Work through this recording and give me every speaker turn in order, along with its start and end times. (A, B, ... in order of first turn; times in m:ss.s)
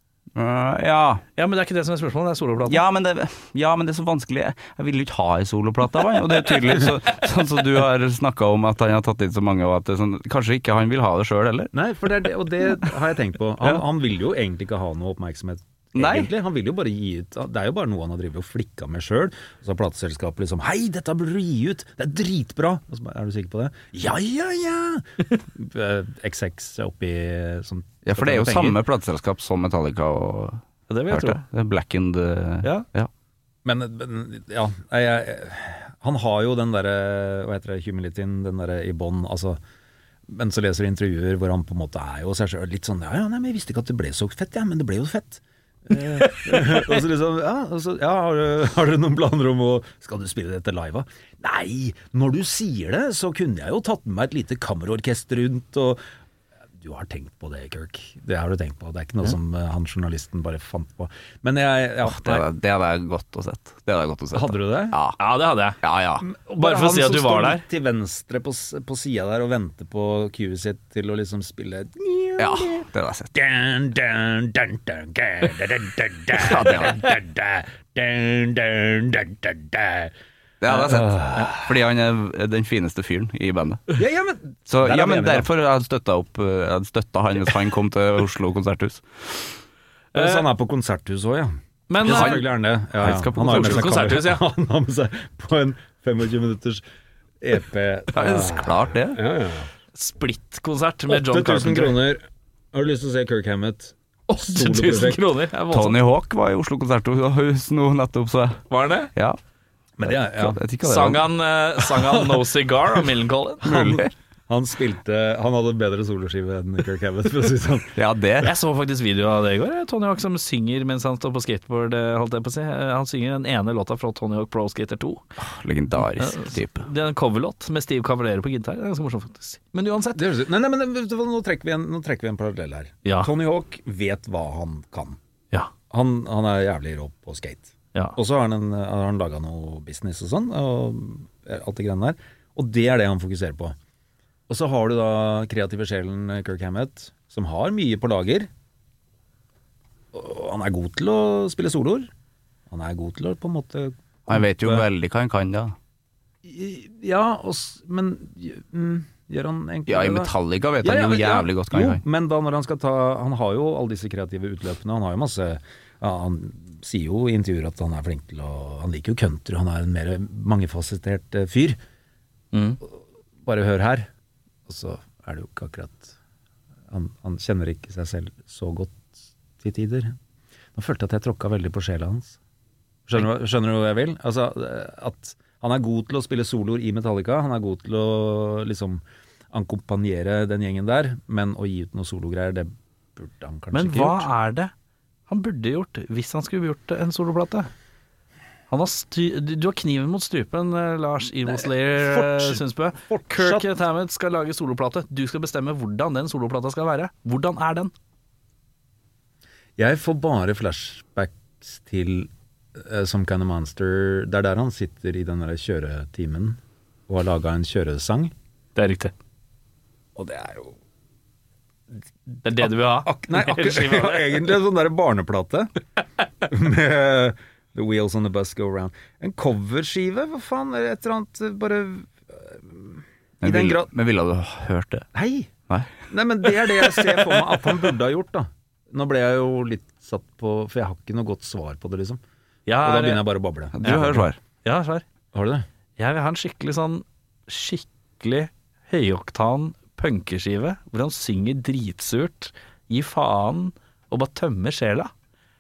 0:00.4-0:01.2 A
0:01.4-0:02.8 B
0:02.7-0:11.7 A
0:11.7-0:28.8 C
0:15.9-0:16.3 A
0:28.0-0:33.1 A
0:30.9-0:31.4 B
0:33.6-0:39.6 C
0:40.3-0:56.0 C
0:56.8-1:02.4 C
1:02.0-1:05.2 A
1:04.3-1:05.0 C
1:05.2-1:05.8 B
1:05.8-1:06.2 A
1:06.2-1:20.1 C
1:06.5-1:07.6 B
1:12.4-1:13.3 A
1:16.4-1:17.0 A
1:20.6-1:24.0 A
1:20.7-1:21.7 C
1:24.0-1:25.5 C
1:24.7-1:29.5 A
1:30.1-1:30.4 B
1:30.1-1:36.8 C
1:31.9-1:32.4 B
1:32.0-1:32.4 A
1:33.0-1:34.1 A
1:33.4-1:34.4 B
1:37.4-1:39.6 C
1:38.1-1:39.2 A
1:39.9-1:42.0 B
1:41.1-1:42.2 C
1:42.7-1:45.2 C
1:44.3-1:46.0 B
1:45.7-1:48.6 A
1:48.7-1:49.1 B
1:50.0-1:50.6 C
1:50.1-1:51.2 A
1:50.8-1:53.6 B
1:53.6-1:54.1 A
1:53.6-1:58.0 C
1:58.0-1:58.5 A
1:58.4-2:05.2 B
2:05.4-2:06.8 A
2:06.2-2:10.2 B
2:10.1-2:15.2 C
2:13.0-2:13.3 B
2:15.9-2:23.8 C
2:24.5-2:28.5 C
2:30.1-2:32.1 C
2:32.7-2:34.8 C
2:34.3-2:35.7 A
2:36.4-2:51.8 C
2:39.9-2:42.0 A
2:52.5-2:52.8 B
2:53.4-2:54.1 C
2:54.7-2:56.2 C
2:56.9-3:00.2 C
3:00.7-3:02.4 C
3:03.1-3:14.3 C
3:13.7-3:14.7 B
3:15.3-3:17.7 B
3:18.7-3:27.9 B
3:21.4-3:23.6 C
3:29.8-3:38.3 C
3:38.8-3:39.1 B
3:40.2-3:40.7 C
3:42.4-3:44.4 B
3:42.6-3:45.7 C
3:46.4-3:53.9 C
3:53.4-3:55.1 A
3:55.1-3:55.5 C
3:55.7-3:56.0 A
3:56.1-4:02.2 C
4:02.7-4:03.3 B
4:02.8-4:04.2 C
4:03.7-4:04.4 A
4:03.8-4:05.0 B
4:05.3-4:05.6 C
4:06.0-4:15.1 B